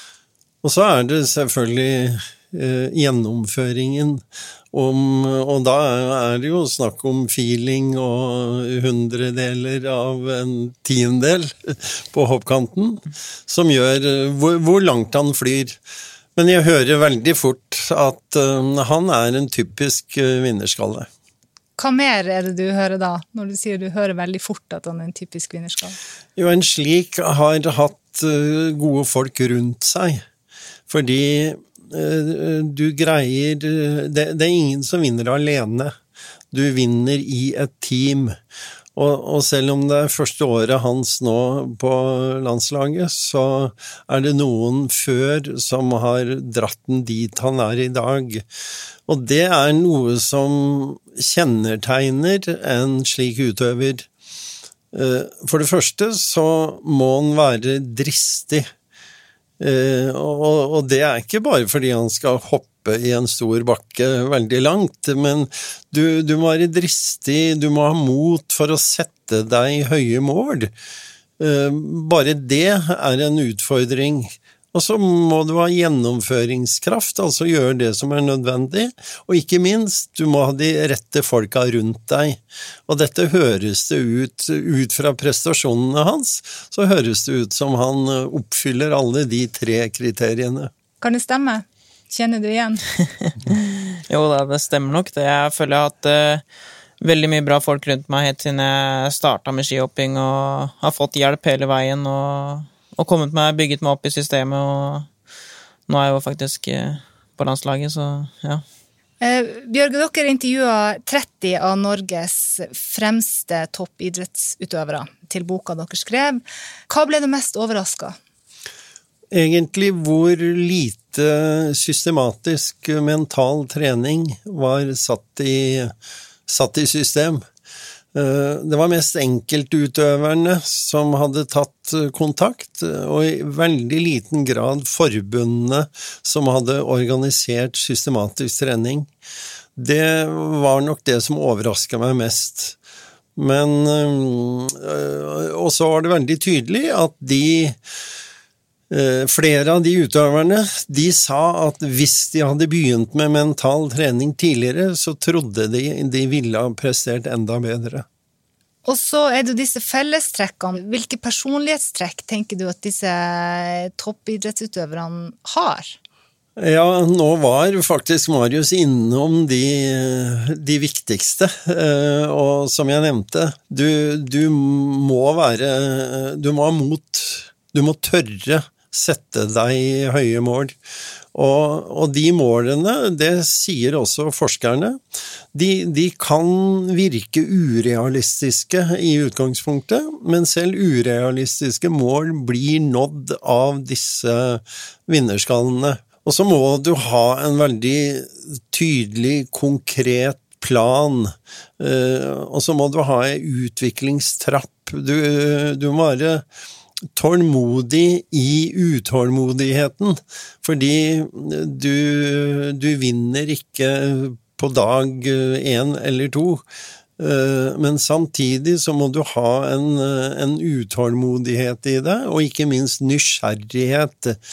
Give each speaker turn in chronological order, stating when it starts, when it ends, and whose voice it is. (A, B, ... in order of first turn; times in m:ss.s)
0:00.6-0:15.8 A
0:16.4-0:21.1 A
0:21.8-0:26.0 B
0:26.4-0:30.2 A
0:30.9-0:36.0 A
0:36.5-0:38.4 A
0:39.0-0:48.5 A
0:49.1-0:54.1 A
0:54.9-0:58.7 A
0:59.6-1:10.7 A
1:11.4-1:30.7 A
1:31.0-1:32.8 B
1:33.3-1:36.4 C
1:37.0-1:45.1 C
1:45.9-1:48.6 C
1:49.2-1:58.2 B
1:59.3-2:05.9 A
2:06.5-2:07.4 A
2:08.1-2:19.1 A
2:19.8-2:22.8 A
2:23.4-2:27.8 A
2:28.9-2:38.0 A
2:38.8-2:46.0 B
2:46.6-3:00.8 A
3:01.3-3:05.0 A
3:05.5-3:26.4 A
3:27.2-3:36.6 A
3:37.2-3:44.4 A